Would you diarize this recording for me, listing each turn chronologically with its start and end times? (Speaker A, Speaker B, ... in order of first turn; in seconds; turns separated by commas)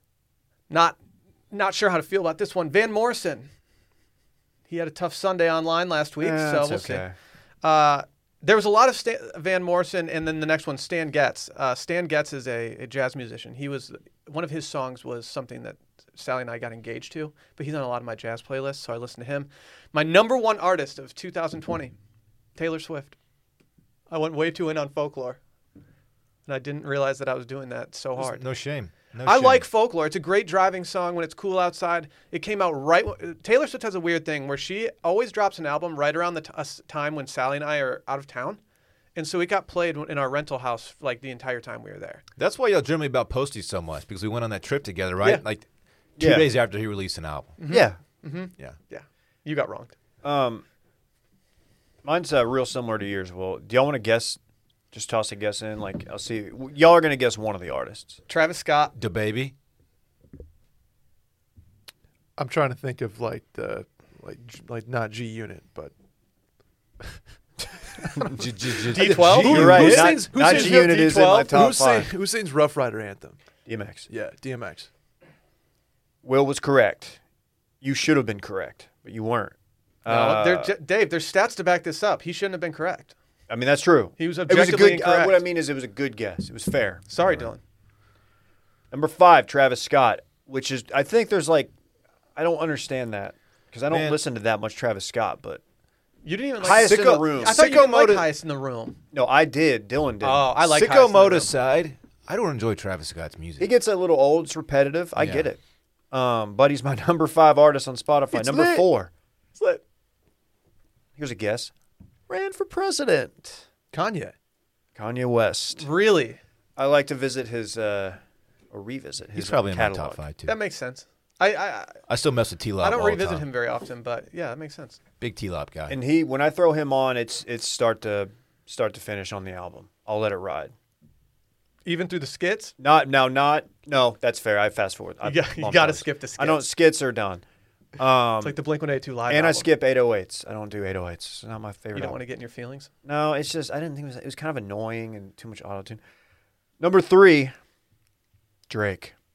Speaker A: 0.7-1.0, Speaker A: 1.5-3.5, Speaker A: 4.7-7.0, Speaker B: 6.2-7.1, Speaker A: 7.6-21.9, Speaker A: 22.6-23.1, Speaker A: 24.1-25.4, Speaker A: 26.5-28.5, Speaker C: 28.2-29.6, Speaker A: 29.2-38.6, Speaker A: 39.1-42.2, Speaker C: 42.4-45.6, Speaker C: 46.2-47.6, Speaker B: 46.2-46.5, Speaker A: 47.6-49.9, Speaker B: 47.7-48.0, Speaker B: 50.2-50.6, Speaker B: 52.0-54.4, Speaker B: 54.9-58.2, Speaker A: 58.3-58.9, Speaker C: 59.0-59.5, Speaker D: 62.4-65.9, Speaker D: 67.8-73.4, Speaker C: 68.3-70.2, Speaker A: 68.9-71.6, Speaker B: 69.4-72.1, Speaker B: 73.7-74.1, Speaker D: 74.1-74.9, Speaker B: 76.2-77.2, Speaker B: 77.8-80.7, Speaker A: 80.0-83.1, Speaker B: 83.5-87.5, Speaker A: 84.2-85.4, Speaker A: 87.1-87.6, Speaker B: 88.9-91.7, Speaker B: 92.3-95.6, Speaker C: 93.9-94.2, Speaker A: 96.2-99.0, Speaker B: 96.6-97.7, Speaker C: 96.7-98.3, Speaker B: 99.1-100.5, Speaker A: 100.2-101.5, Speaker C: 100.6-103.7, Speaker B: 103.6-105.6, Speaker C: 105.2-105.5, Speaker B: 106.1-109.1, Speaker A: 108.3-108.8, Speaker A: 109.5-109.8, Speaker B: 111.2-111.7, Speaker B: 112.3-113.7, Speaker D: 113.9-114.3, Speaker B: 114.9-115.9, Speaker A: 115.8-116.4, Speaker B: 116.8-118.2, Speaker B: 118.7-120.2, Speaker C: 119.3-120.5, Speaker A: 120.5-122.0, Speaker C: 122.1-123.5, Speaker A: 122.8-125.0, Speaker C: 125.2-126.0, Speaker B: 125.9-130.7, Speaker A: 131.8-132.7, Speaker B: 132.8-137.4, Speaker A: 135.2-136.6, Speaker B: 138.0-138.6, Speaker A: 138.4-139.7, Speaker B: 139.3-142.2, Speaker A: 141.9-142.9, Speaker B: 143.0-146.0, Speaker B: 146.8-147.5, Speaker B: 148.7-149.1